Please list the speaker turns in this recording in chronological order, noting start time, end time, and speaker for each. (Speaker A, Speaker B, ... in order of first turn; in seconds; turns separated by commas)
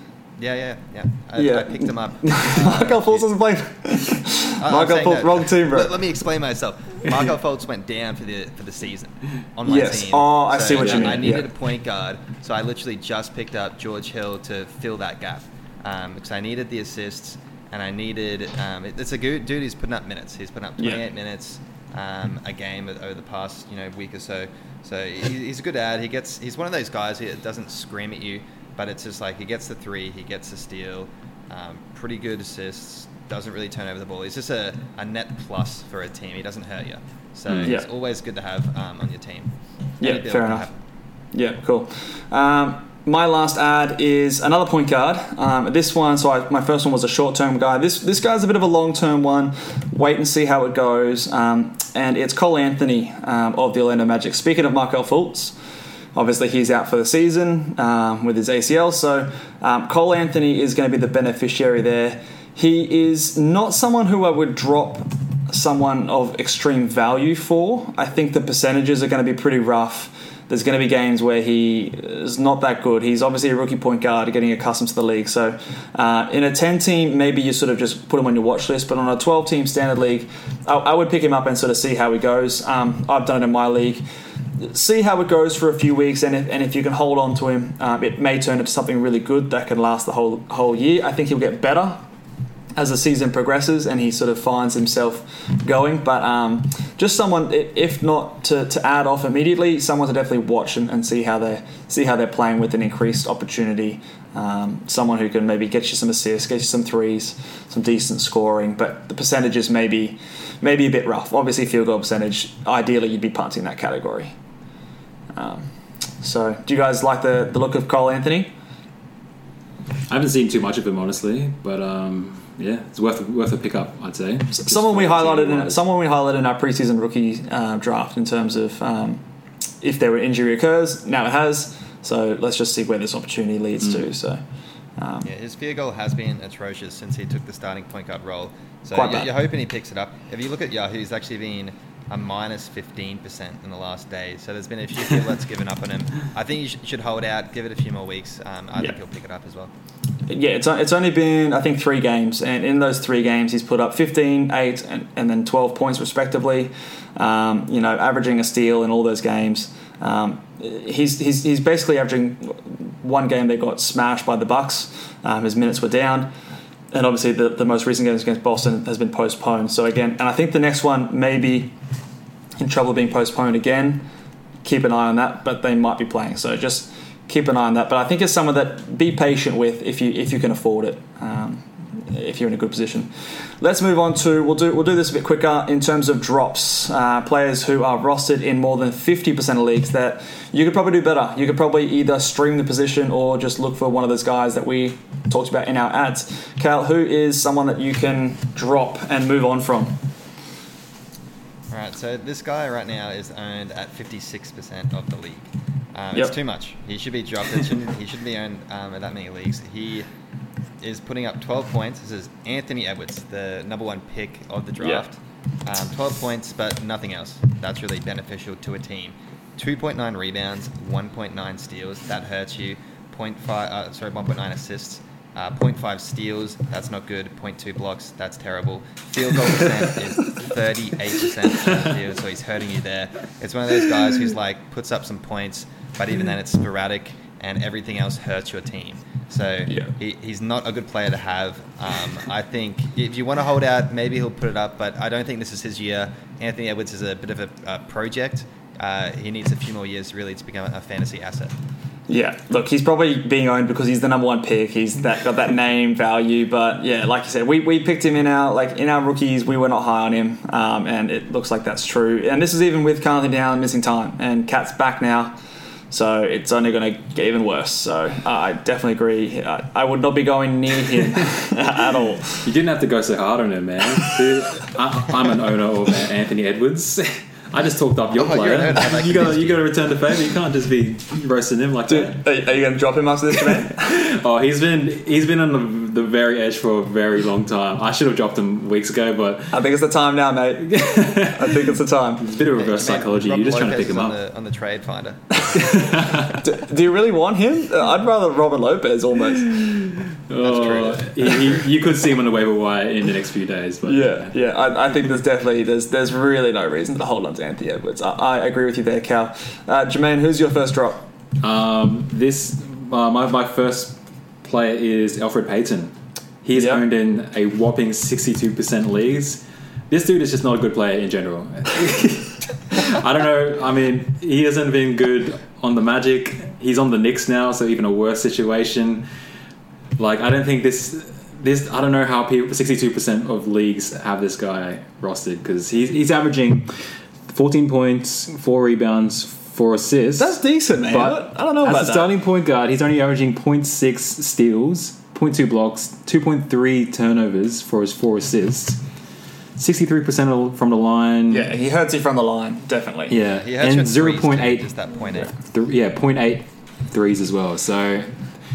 Speaker A: 0.4-3.3, Speaker B: 1.4-6.0, Speaker A: 4.6-40.7, Speaker B: 9.6-11.5, Speaker C: 10.8-11.2, Speaker B: 20.8-21.0, Speaker B: 40.0-40.7, Speaker B: 41.3-55.5, Speaker B: 56.1-84.0, Speaker B: 84.6-92.0, Speaker B: 92.8-114.3, Speaker B: 115.3-118.5, Speaker C: 120.1-125.8, Speaker B: 124.6-129.2, Speaker B: 129.8-134.4, Speaker C: 133.8-134.1, Speaker B: 135.0-135.3, Speaker A: 135.2-149.7, Speaker B: 138.9-139.3, Speaker B: 150.3-166.3, Speaker B: 166.9-171.7, Speaker B: 172.6-174.0, Speaker B: 174.6-200.0, Speaker A: 201.7-210.1, Speaker A: 210.8-251.5, Speaker B: 214.8-215.1, Speaker B: 239.7-239.9, Speaker B: 252.1-265.4, Speaker B: 265.9-272.4, Speaker C: 272.4-282.3, Speaker A: 278.1-279.7, Speaker B: 281.9-284.0, Speaker C: 283.4-289.6, Speaker B: 289.5-292.2, Speaker C: 290.6-294.2, Speaker A: 292.6-295.8, Speaker C: 295.6-296.4, Speaker B: 296.3-299.5, Speaker C: 299.4-304.3, Speaker A: 300.4-301.6, Speaker B: 303.9-311.1, Speaker C: 311.4-329.1, Speaker B: 316.5-316.8, Speaker C: 330.0-348.8, Speaker B: 340.2-342.1, Speaker C: 349.6-351.5, Speaker B: 351.3-353.2, Speaker C: 353.1-358.1, Speaker A: 353.4-355.3